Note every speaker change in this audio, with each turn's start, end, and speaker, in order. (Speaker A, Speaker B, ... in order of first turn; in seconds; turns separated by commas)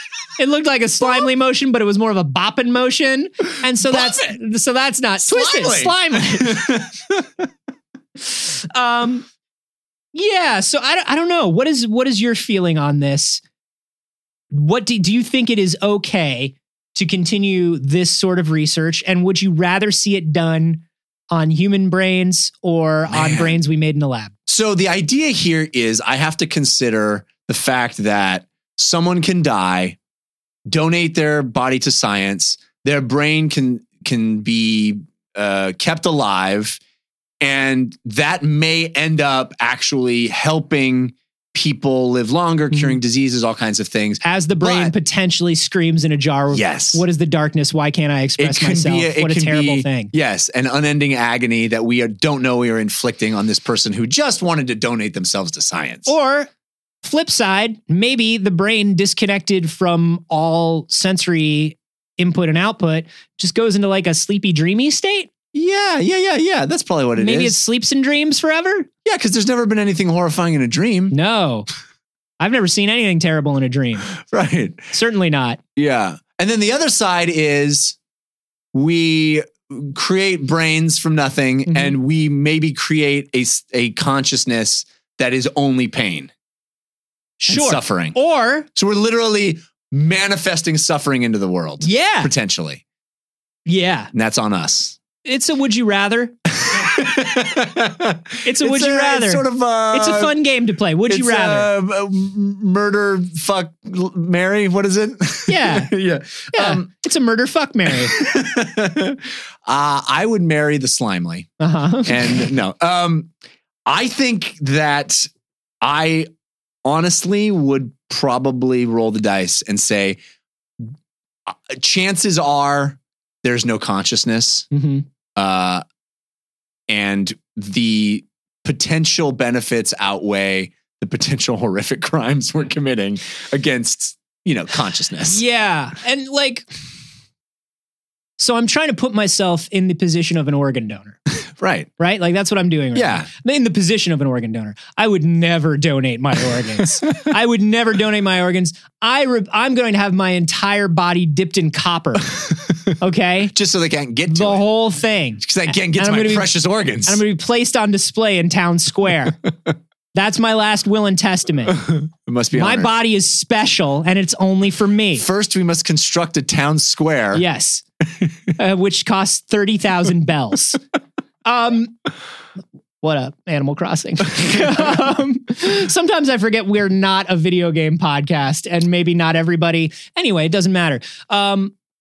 Speaker A: 0.4-6.7, Speaker B: 3.8-4.3, Speaker B: 5.2-7.5, Speaker A: 8.3-9.2, Speaker A: 10.1-13.4, Speaker A: 14.5-24.3, Speaker B: 23.1-23.6, Speaker B: 24.5-30.0, Speaker B: 30.7-36.8, Speaker B: 37.4-44.9, Speaker A: 42.7-43.0, Speaker A: 44.2-50.1, Speaker B: 46.5-47.0, Speaker B: 48.4-56.1, Speaker A: 56.0-56.5, Speaker A: 57.0-65.3, Speaker B: 65.5-67.5, Speaker A: 67.2-68.9, Speaker B: 69.0-71.1, Speaker A: 71.1-71.7, Speaker A: 72.4-74.1, Speaker B: 74.3-74.9, Speaker A: 74.9-75.6, Speaker B: 75.8-78.0, Speaker B: 78.7-86.3, Speaker A: 81.7-82.0, Speaker A: 87.4-88.7, Speaker B: 87.5-88.2, Speaker B: 88.8-92.8, Speaker A: 91.8-92.3, Speaker A: 93.7-94.1, Speaker B: 94.1-95.0, Speaker A: 95.2-96.3, Speaker B: 96.7-100.3, Speaker A: 98.4-101.7, Speaker B: 101.1-106.9, Speaker A: 105.5-105.9, Speaker A: 106.5-108.1, Speaker B: 107.9-111.5, Speaker A: 111.6-112.5, Speaker B: 112.0-113.3, Speaker B: 113.9-115.3, Speaker B: 115.8-116.3, Speaker B: 116.8-120.2, Speaker B: 121.5-124.7, Speaker A: 124.7-125.0, Speaker B: 125.3-125.8, Speaker B: 126.9-135.4, Speaker A: 135.2-136.7, Speaker A: 138.4-141.2, Speaker B: 141.6-141.9, Speaker A: 142.0-152.3, Speaker B: 142.9-143.3, Speaker B: 152.3-152.9, Speaker A: 153.0-153.5, Speaker B: 153.5-154.6, Speaker A: 154.3-159.4, Speaker B: 155.4-157.2, Speaker A: 160.1-161.8, Speaker B: 161.7-162.9, Speaker A: 162.5-165.2, Speaker B: 165.2-167.4, Speaker A: 167.3-167.8, Speaker A: 168.6-170.8, Speaker A: 171.4-172.0, Speaker A: 173.0-181.7